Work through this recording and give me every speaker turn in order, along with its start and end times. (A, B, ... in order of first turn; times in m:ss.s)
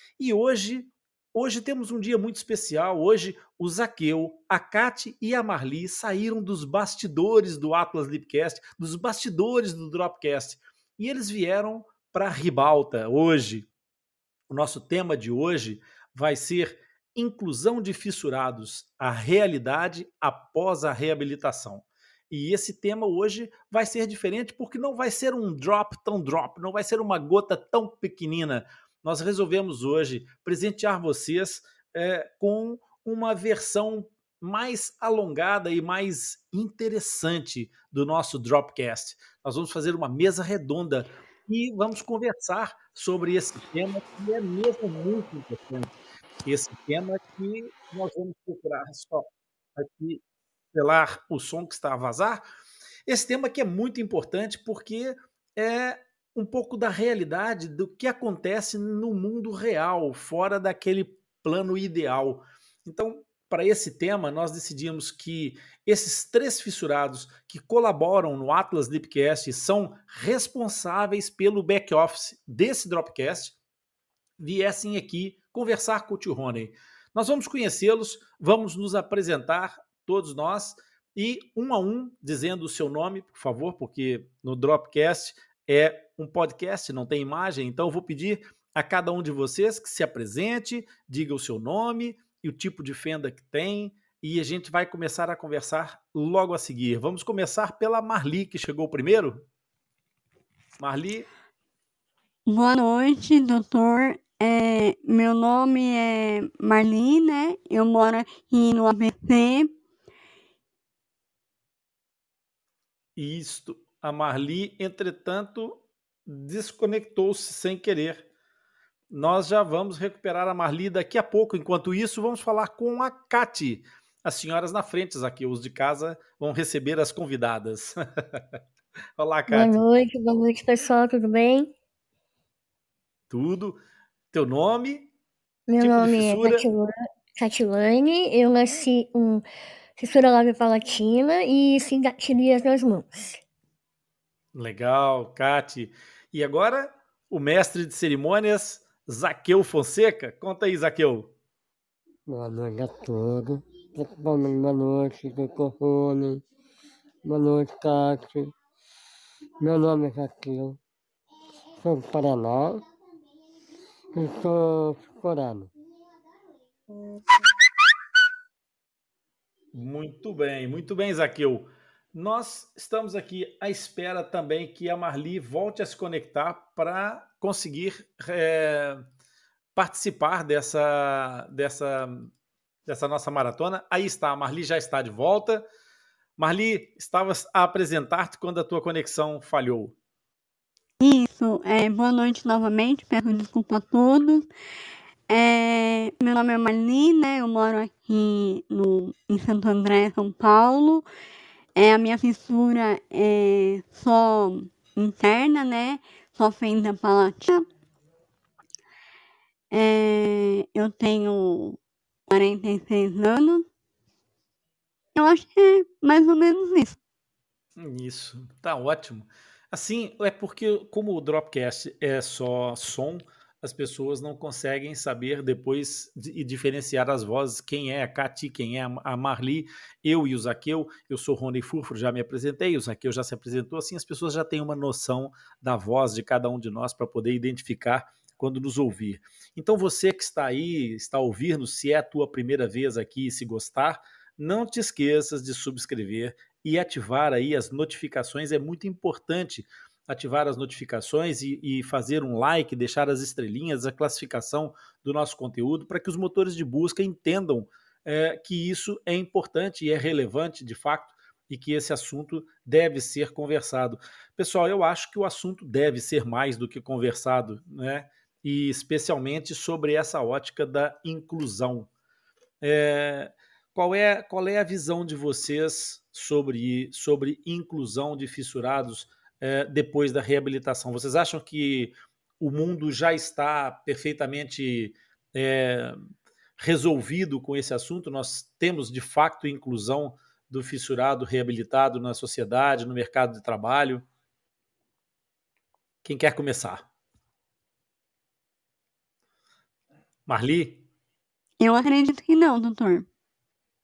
0:00.2-0:13.7 A
0:14.5-0:45.9 A
0:46.4-0:50.2 A
0:50.7-0:52.4 A
0:53.1-1:13.6 A
1:14.4-1:39.4 A
1:40.8-1:41.3 A
1:42.5-1:49.7 B
1:53.2-1:58.3 A
1:59.1-2:08.6 A
2:09.2-2:09.8 A
2:09.5-2:11.7 C
2:13.3-2:13.8 A
2:14.3-2:15.1 A
2:15.7-2:19.4 C
2:15.8-2:16.6 A
2:20.0-2:23.4 C
2:24.5-2:31.3 A
2:32.3-2:36.4 D
2:37.2-2:38.5 D
2:39.6-2:40.8 D
2:41.8-2:42.8 D
2:44.1-2:45.7 D
2:49.7-2:59.0 A
2:59.8-3:02.3 A
3:02.9-3:05.6 A
3:06.4-3:10.0 A
3:11.0-3:14.5 B
3:15.3-3:21.1 B
3:21.8-3:27.6 B
3:29.7-3:33.7 B
3:35.2-3:37.0 B
3:37.8-4:31.9 A
4:32.6-4:46.0 A
4:46.6-4:54.0 A
4:56.0-4:56.8 A
5:00.3-5:00.8 A
5:01.6-5:03.1 B